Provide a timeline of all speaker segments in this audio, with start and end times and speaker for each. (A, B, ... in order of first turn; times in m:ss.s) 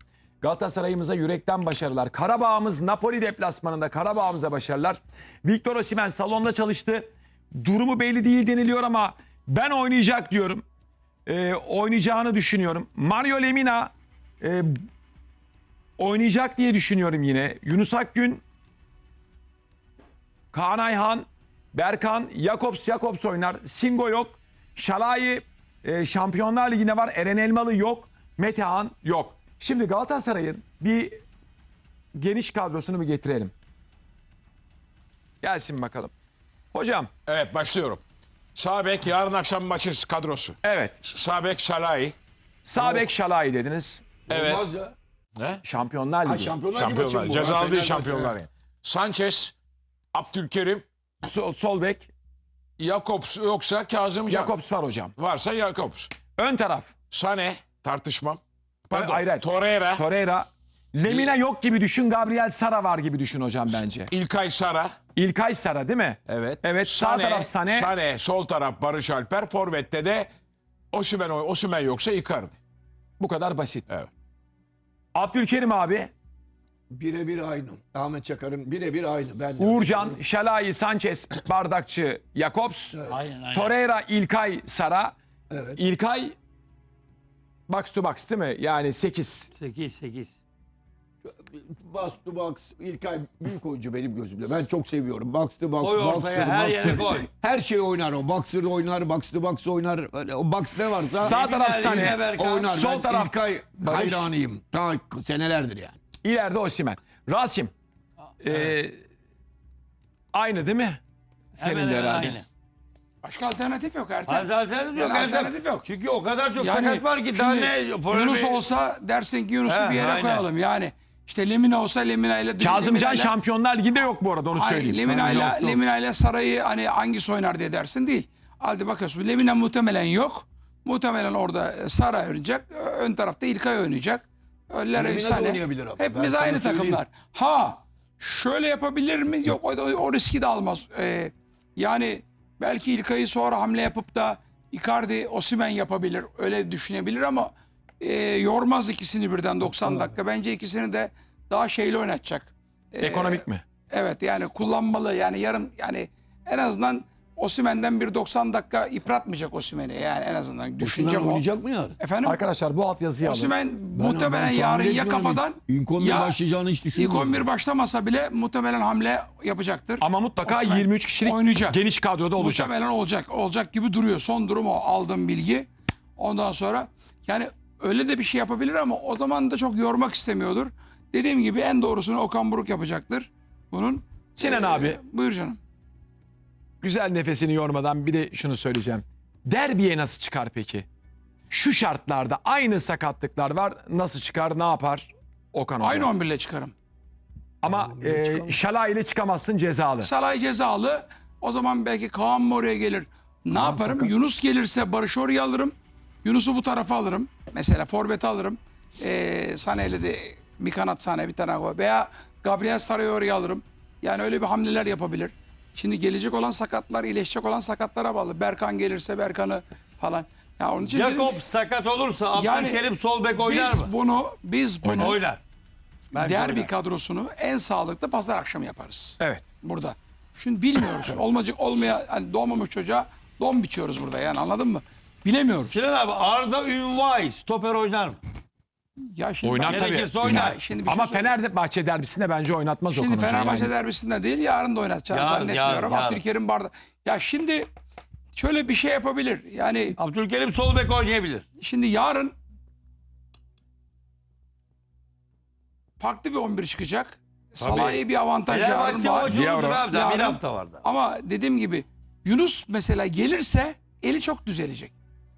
0:00.4-0:10.6 A
0:11.3-0:14.8 A
0:16.0-0:18.4 A
0:20.5-0:31.2 A
0:32.2-0:33.5 A
0:35.4-0:36.1 A
0:36.7-0:37.1 A
0:37.3-0:38.0 B
0:38.6-0:42.2 B
0:40.6-0:41.1 A
0:42.6-0:44.0 A
0:42.8-0:43.1 C
0:44.3-0:44.9 C
0:44.3-0:44.6 B
0:45.4-0:45.6 B
0:45.6-0:46.5 A
0:46.2-0:48.4 C
0:46.7-0:49.6 B
0:50.1-0:50.8 B
0:51.2-0:52.1 A
0:52.8-0:54.6 B
0:54.3-0:55.1 A
0:55.2-0:56.2 B
0:56.4-0:56.9 A
0:57.1-1:00.0 B
0:58.9-1:04.1 A
1:01.1-1:01.3 B
1:04.1-1:05.0 B
1:05.2-1:07.9 A
1:06.3-1:10.3 B
1:10.9-1:12.6 B
1:13.2-1:13.9 A
1:15.2-1:16.1 A
1:16.9-1:20.2 C
1:19.6-1:23.0 A
1:22.9-1:23.2 C
1:23.1-1:23.7 D
1:23.5-1:25.2 A
1:25.5-1:25.8 C
1:25.8-1:26.4 A
1:27.7-1:29.5 A
1:29.6-1:30.4 D
1:31.2-1:46.0 C
1:35.8-1:37.3 D
1:41.2-1:44.3 A
1:41.2-1:42.8 D
1:46.2-1:47.7 A
1:48.4-1:49.0 A
1:50.3-1:51.0 A
1:51.6-1:52.4 D
1:51.6-1:52.4 A
1:53.2-1:55.9 E
1:54.3-1:58.6 D
1:56.6-2:03.3 E
1:59.7-2:00.5 D
2:02.6-2:05.8 A
2:04.5-2:41.4 E
2:15.0-2:17.0 C
2:29.8-2:30.1 C
2:33.0-2:33.6 A
2:40.8-2:42.0 C
2:42.0-2:42.4 E
2:42.2-2:43.5 A
2:43.2-2:46.4 E
2:44.0-2:47.4 C
2:47.0-2:51.8 E
2:50.0-2:52.7 A
2:52.4-3:05.6 E
3:04.4-3:05.0 A
3:06.8-3:10.9 A
3:11.5-3:16.1 A
3:15.8-3:16.7 E
3:17.6-3:20.1 A
3:17.6-3:18.6 C
3:20.0-3:41.4 E
3:23.5-3:24.1 C
3:40.9-3:43.9 D
3:42.3-3:42.8 E
3:43.4-3:45.2 E
3:44.8-3:45.2 A
3:44.9-3:45.4 D
3:46.1-3:55.8 E
3:46.1-3:46.7 D
3:55.7-3:58.2 D
3:59.1-4:01.3 E
3:59.4-4:03.7 A
3:59.6-4:00.6 D
4:02.9-4:07.7 E
4:05.1-4:06.2 D
4:08.3-4:10.0 E
4:10.0-4:11.4 D
4:11.6-4:12.4 E
4:16.0-4:24.9 E
4:17.6-4:20.8 D
4:19.3-4:19.9 A